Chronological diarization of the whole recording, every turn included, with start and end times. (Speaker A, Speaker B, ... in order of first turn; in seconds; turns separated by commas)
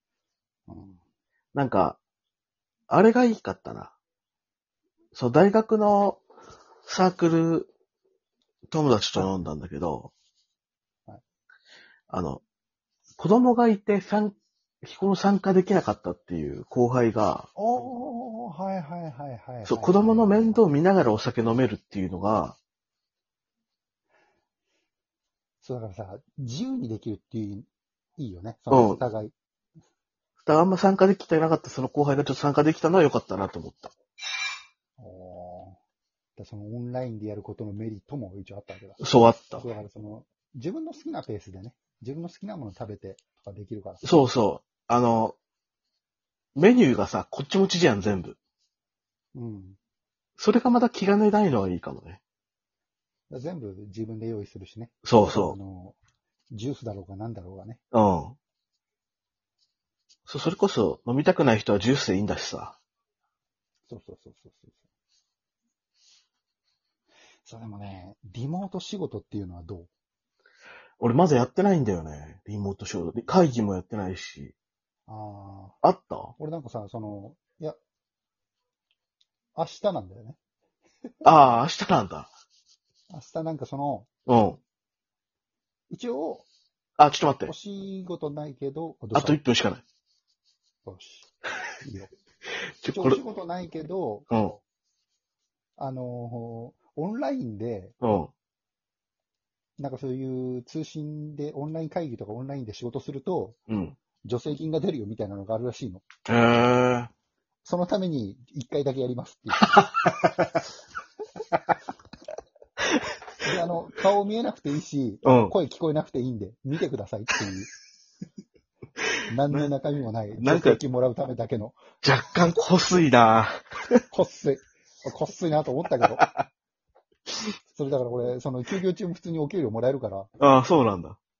Speaker A: 0.7-1.0, Speaker B: 1.5-2.0, Speaker B: 2.9-3.9, Speaker B: 5.1-6.2, Speaker B: 6.9-7.7, Speaker B: 8.7-10.1, Speaker B: 12.1-12.4, Speaker B: 13.2-17.5, Speaker A: 17.6-20.6, Speaker B: 19.6-22.6, Speaker A: 25.6-29.3, Speaker B: 28.7-29.0, Speaker B: 30.4-33.9, Speaker A: 35.0-35.8, Speaker A: 36.4-44.1, Speaker B: 39.0-39.6, Speaker B: 44.0-45.4, Speaker B: 46.5-48.4, Speaker A: 49.4-49.8, Speaker B: 50.4-52.2, Speaker A: 53.3-56.0, Speaker B: 55.0-55.6, Speaker A: 56.5-57.8, Speaker B: 57.9-58.4, Speaker B: 60.3-62.8, Speaker A: 63.9-64.8, Speaker A: 67.4-69.9, Speaker B: 71.0-74.5, Speaker A: 75.1-75.8, Speaker B: 75.8-76.3, Speaker A: 76.4-77.8, Speaker A: 79.5-80.4, Speaker A: 81.2-81.5, Speaker B: 81.2-82.3, Speaker A: 83.1-84.1, Speaker B: 84.3-84.6, Speaker A: 85.9-86.5, Speaker B: 87.0-87.5, Speaker A: 87.4-89.4, Speaker B: 89.1-89.8, Speaker A: 90.8-91.3, Speaker A: 91.8-92.1, Speaker B: 92.8-93.2, Speaker A: 92.9-94.3, Speaker B: 94.3-94.6, Speaker A: 95.8-97.9, Speaker B: 98.0-98.3, Speaker A: 99.8-103.6, Speaker B: 103.7-104.0, Speaker A: 104.2-106.0, Speaker B: 106.3-107.1, Speaker A: 107.6-109.8, Speaker B: 109.7-110.5, Speaker A: 113.4-117.7, Speaker B: 115.2-115.5, Speaker A: 119.3-121.8, Speaker B: 120.4-120.8, Speaker B: 122.0-123.9, Speaker A: 124.1-126.2, Speaker B: 126.0-126.5, Speaker A: 127.7-130.3, Speaker B: 130.4-131.2